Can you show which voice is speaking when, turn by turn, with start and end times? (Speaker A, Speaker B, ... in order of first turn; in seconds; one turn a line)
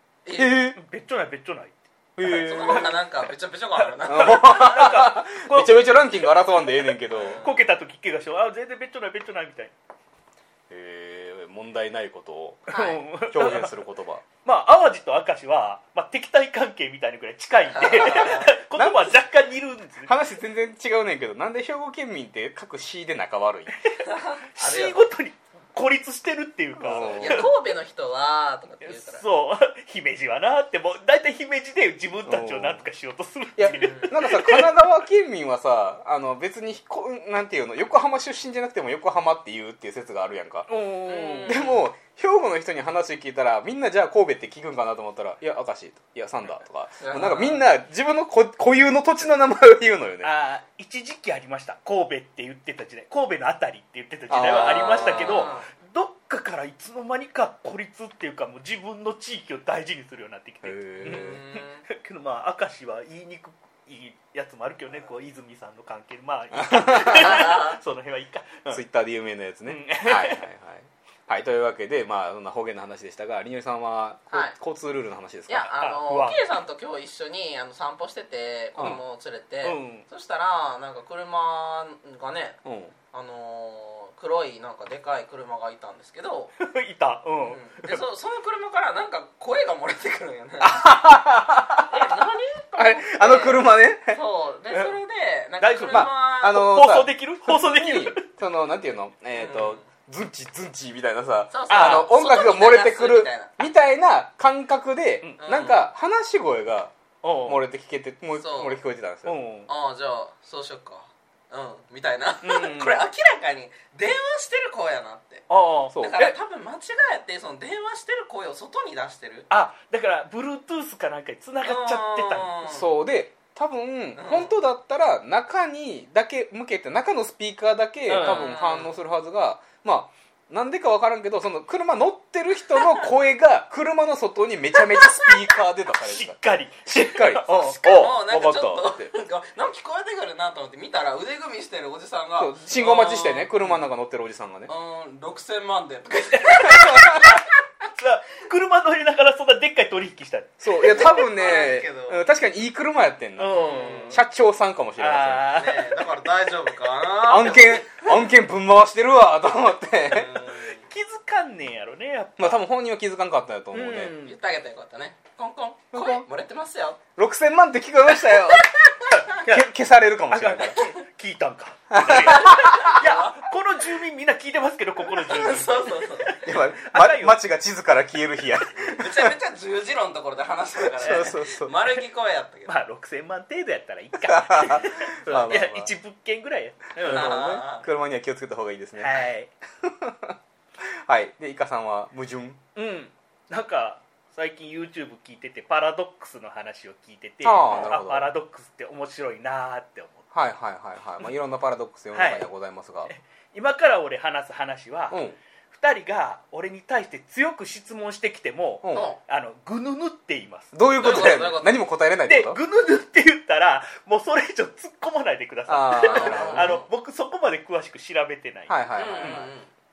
Speaker A: 0.2-0.6
Speaker B: 0.3-0.8
Speaker C: 0.7-3.0
Speaker B: 2.2-2.9
Speaker A: 2.2-4.4
Speaker C: 3.8-6.2
Speaker B: 4.0-7.4
Speaker A: 7.1-7.6
Speaker C: 7.2-9.7
Speaker B: 10.7-14.2
Speaker C: 12.7-13.8
Speaker A: 12.7-13.0
Speaker C: 14.4-20.2
Speaker A: 17.7-18.5
Speaker B: 18.0-19.2
Speaker B: 20.1-23.8
Speaker C: 23.9-27.5
Speaker A: 24.1-25.0
Speaker B: 26.8-27.5
Speaker A: 26.9-29.2
Speaker C: 28.8-34.7
Speaker B: 32.2-32.8
Speaker B: 33.6-40.7
Speaker A: 33.7-34.1
Speaker C: 40.7-41.6
Speaker A: 41.0-41.8
Speaker B: 41.4-50.3
Speaker A: 47.0-47.6
Speaker C: 50.2-68.8
Speaker B: 54.3-55.6
Speaker A: 54.4-55.7
Speaker B: 60.6-61.4
Speaker A: 61.0-61.9
Speaker B: 66.5-67.4
Speaker A: 67.1-67.8
Speaker B: 68.7-75.7
Speaker C: 69.7-70.4
Speaker A: 75.5-82.6
Speaker C: 75.8-76.4
Speaker C: 79.6-80.0
Speaker B: 82.6-82.9
Speaker A: 83.1-86.5
Speaker C: 86.6-88.0
Speaker A: 87.4-91.0
Speaker B: 90.6-92.2
Speaker A: 91.8-96.7
Speaker B: 92.8-94.2
Speaker C: 95.6-98.3
Speaker B: 95.9-106.9
Speaker A: 99.3-99.8
Speaker A: 101.5-103.6
Speaker C: 101.7-102.1
Speaker A: 105.4-105.9
Speaker C: 107.2-107.6
Speaker B: 107.4-109.4
Speaker A: 108.4-108.8
Speaker C: 109.2-109.7
Speaker A: 109.7-119.5
Speaker C: 112.4-113.0
Speaker C: 115.5-116.3
Speaker B: 115.9-116.3
Speaker C: 119.5-122.5
Speaker A: 121.6-122.9
Speaker B: 122.6-139.1
Speaker A: 124.2-124.5
Speaker C: 128.1-128.5
Speaker A: 128.2-128.9
Speaker C: 136.0-137.8
Speaker A: 137.6-143.5
Speaker B: 142.4-144.7
Speaker A: 144.7-147.5
Speaker B: 146.6-147.4
Speaker C: 146.9-147.4
Speaker C: 148.0-151.2
Speaker B: 150.6-155.5
Speaker A: 150.8-152.2
Speaker C: 153.4-154.2
Speaker A: 153.5-154.2
Speaker C: 155.0-156.2
Speaker A: 155.5-158.1
Speaker B: 157.2-160.4
Speaker A: 160.1-160.8
Speaker C: 160.7-162.6
Speaker B: 162.4-164.1
Speaker C: 163.7-164.3
Speaker A: 164.2-167.0
Speaker B: 165.9-166.3
Speaker B: 167.2-170.8
Speaker A: 168.3-169.2
Speaker C: 169.1-169.7
Speaker C: 170.3-177.4
Speaker B: 171.9-173.0
Speaker A: 172.2-173.5
Speaker A: 175.3-176.4
Speaker B: 176.4-179.3
Speaker A: 178.8-182.8
Speaker B: 180.9-181.7
Speaker C: 181.0-181.3
Speaker C: 182.7-187.3
Speaker B: 184.1-185.9
Speaker B: 187.0-189.2
Speaker A: 187.0-187.9
Speaker C: 188.9-189.5
Speaker B: 189.8-192.6
Speaker C: 192.8-200.2
Speaker B: 197.4-198.3
Speaker B: 200.3-203.1
Speaker C: 202.1-202.5
Speaker C: 203.1-210.7
Speaker B: 205.1-205.4
Speaker B: 208.8-209.1
Speaker A: 208.9-209.2
Speaker B: 210.7-212.6
Speaker A: 211.0-211.8
Speaker C: 212.2-219.5
Speaker B: 215.7-216.8
Speaker A: 216.1-216.8
Speaker B: 218.7-219.5
Speaker A: 218.9-219.7